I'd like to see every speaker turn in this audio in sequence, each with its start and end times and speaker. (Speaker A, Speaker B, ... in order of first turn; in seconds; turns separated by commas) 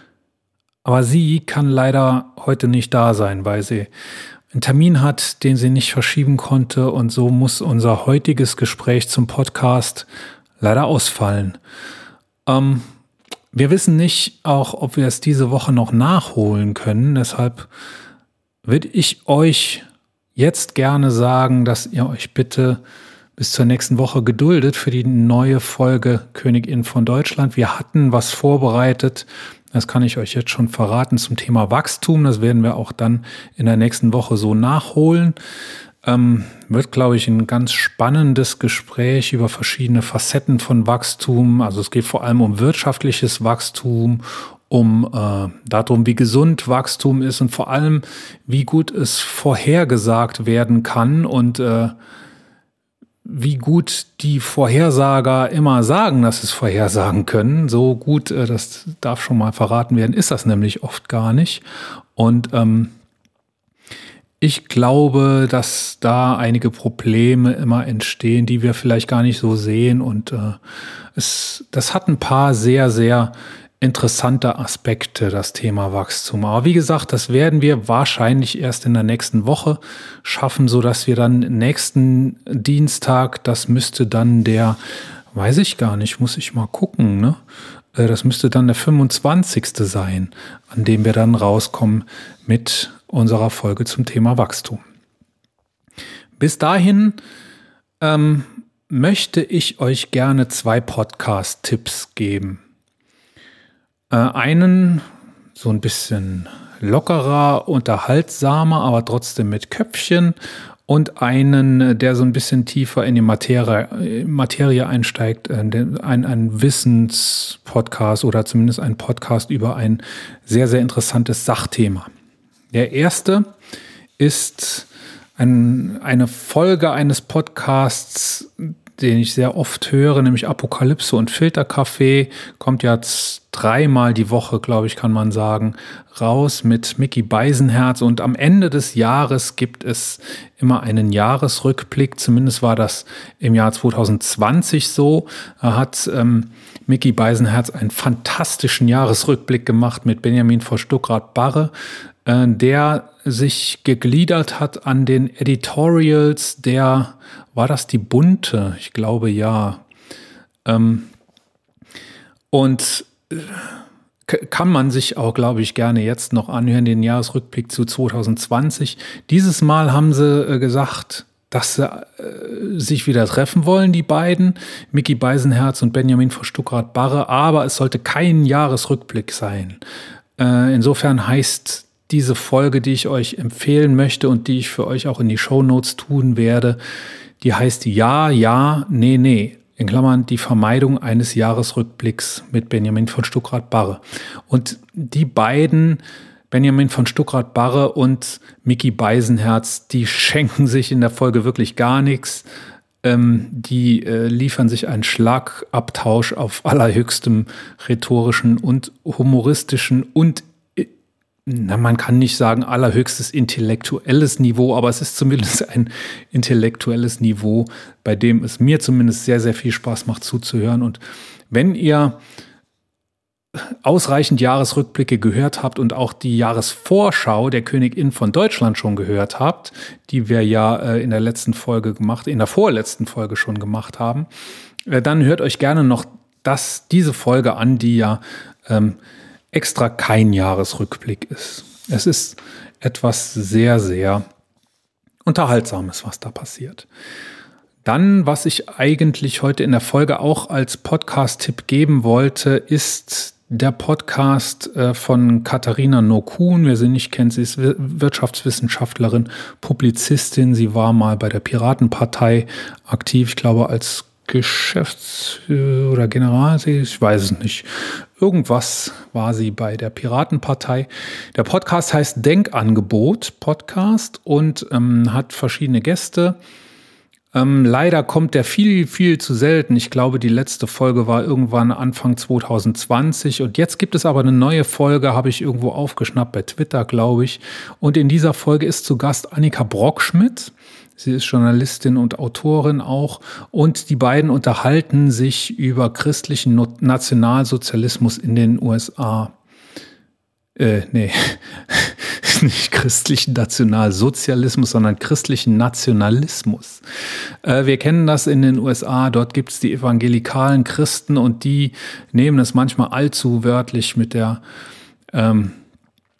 Speaker A: 0.8-3.9, Speaker A: 4.5-10.1, Speaker A: 10.6-11.6, Speaker A: 12.4-12.8, Speaker A: 13.5-17.7, Speaker A: 18.6-19.8, Speaker A: 20.4-22.8, Speaker A: 23.4-35.4, Speaker A: 36.0-51.9, Speaker A: 53.2-61.6, Speaker A: 62.1-62.9, Speaker A: 64.4-70.6, Speaker A: 71.1-84.8, Speaker A: 85.3-87.4, Speaker A: 87.9-94.8, Speaker A: 96.4-97.2, Speaker A: 98.0-102.6, Speaker A: 104.1-105.0, Speaker A: 105.5-110.3, Speaker A: 110.9-122.1, Speaker A: 122.7-123.5, Speaker A: 124.2-151.7, Speaker A: 152.2-159.8, Speaker A: 160.6-161.1, Speaker A: 162.5-163.7, Speaker A: 164.3-179.8, Speaker A: 180.4-186.8, Speaker A: 187.4-202.5, Speaker A: 203.0-210.9, Speaker A: 211.4-222.2, Speaker A: 223.5-234.3, Speaker A: 234.9-239.0, Speaker A: 239.5-244.2, Speaker A: 245.2-246.9, Speaker A: 247.8-276.4, Speaker A: 277.3-299.3, Speaker A: 300.6-306.8, Speaker A: 307.4-314.4, Speaker A: 315.1-315.6